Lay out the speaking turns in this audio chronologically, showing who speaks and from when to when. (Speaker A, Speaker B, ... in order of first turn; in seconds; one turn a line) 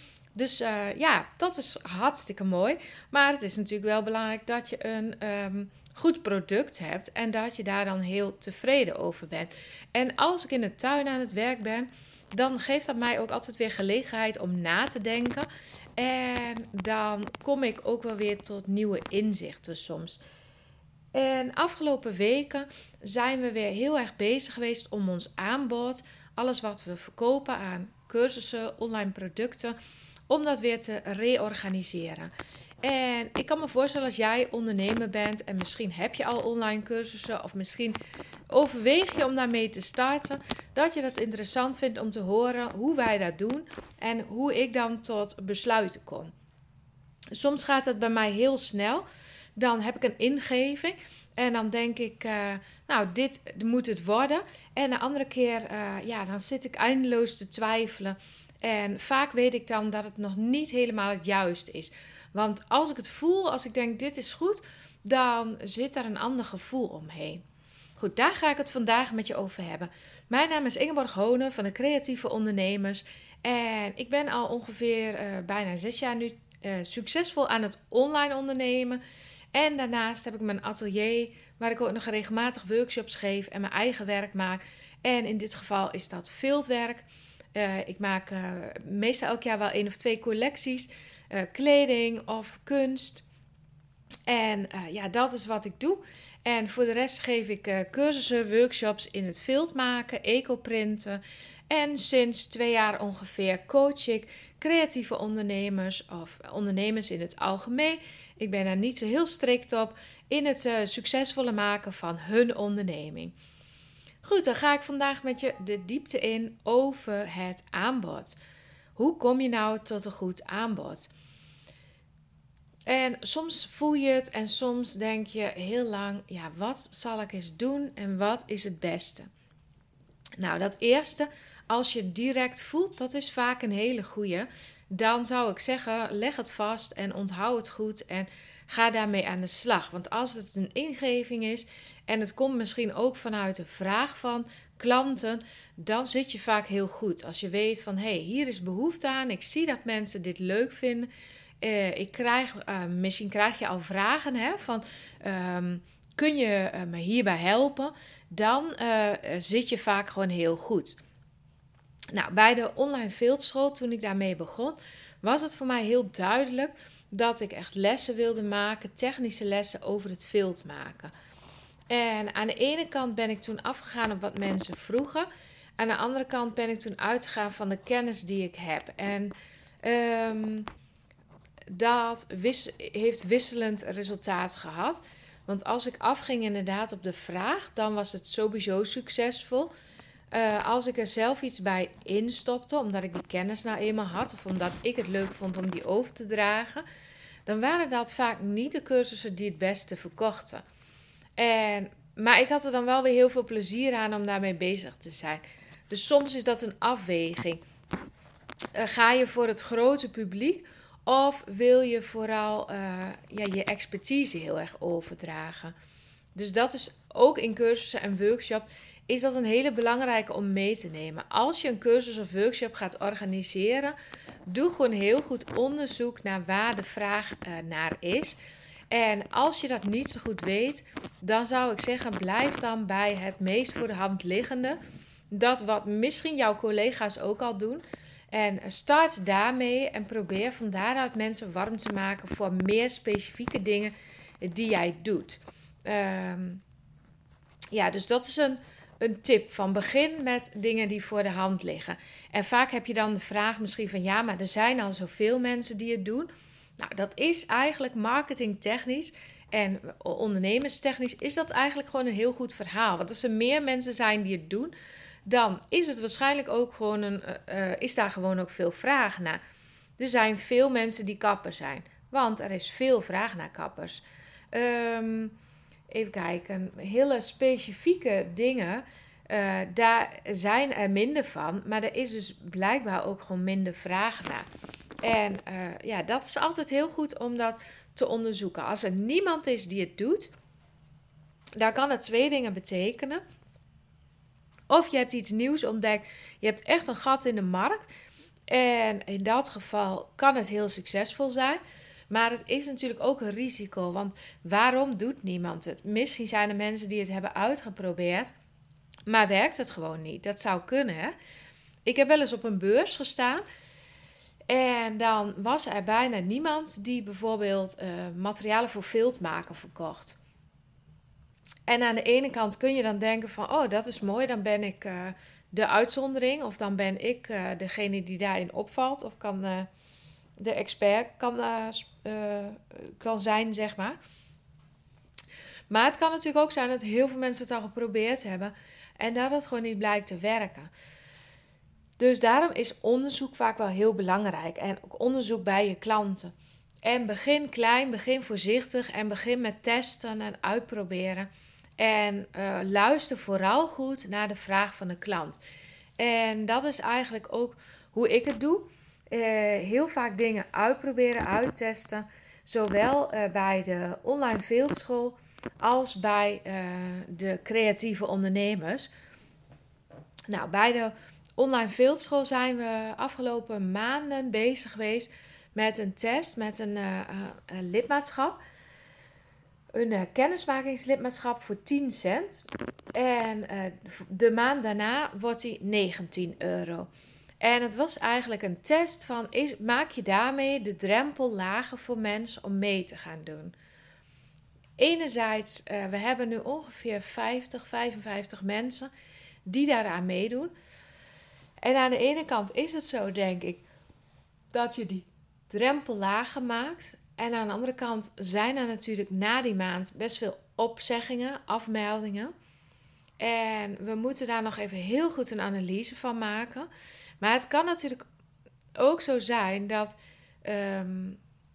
Speaker A: 0.3-20.2
Speaker A: 21.1-29.8
Speaker A: 30.3-32.3
Speaker A: 32.8-38.0
Speaker A: 38.5-46.3
Speaker A: 47.3-49.0
Speaker A: 49.5-67.4
Speaker A: 68.0-79.0
Speaker A: 79.5-93.2
Speaker A: 94.3-113.3
Speaker A: 114.2-118.4
Speaker A: 119.0-121.1
Speaker A: 122.9-129.3
Speaker A: 130.4-151.1
Speaker A: 151.6-161.0
Speaker A: 162.1-171.1
Speaker A: 171.9-175.3
Speaker A: 175.8-180.7
Speaker A: 181.7-189.7
Speaker A: 190.3-196.8
Speaker A: 197.4-200.6
Speaker A: 201.4-207.6
Speaker A: 208.7-215.7
Speaker A: 216.3-223.9
Speaker A: 224.5-228.3
Speaker A: 228.9-234.8
Speaker A: 235.3-246.6
Speaker A: 247.7-264.7
Speaker A: 265.2-269.4
Speaker A: 270.0-275.3
Speaker A: 275.9-284.4
Speaker A: 285.0-290.3
Speaker A: 291.6-293.2
Speaker A: 294.7-297.9
Speaker A: 298.5-308.3
Speaker A: 309.1-311.1
Speaker A: 311.9-313.4
Speaker A: 314.5-320.2
Speaker A: 321.7-329.7
Speaker A: 330.4-334.0
Speaker A: 335.7-340.7
Speaker A: 342.0-346.3
Speaker A: 346.8-355.4
Speaker A: 356.0-368.9
Speaker A: 370.3-378.4
Speaker A: 379.7-386.9
Speaker A: 387.4-393.5
Speaker A: 394.8-398.9
Speaker A: 399.4-400.5
Speaker A: 401.6-403.6
Speaker A: 404.5-412.3
Speaker A: 413.2-416.7
Speaker A: 417.2-418.0
Speaker A: 418.8-421.2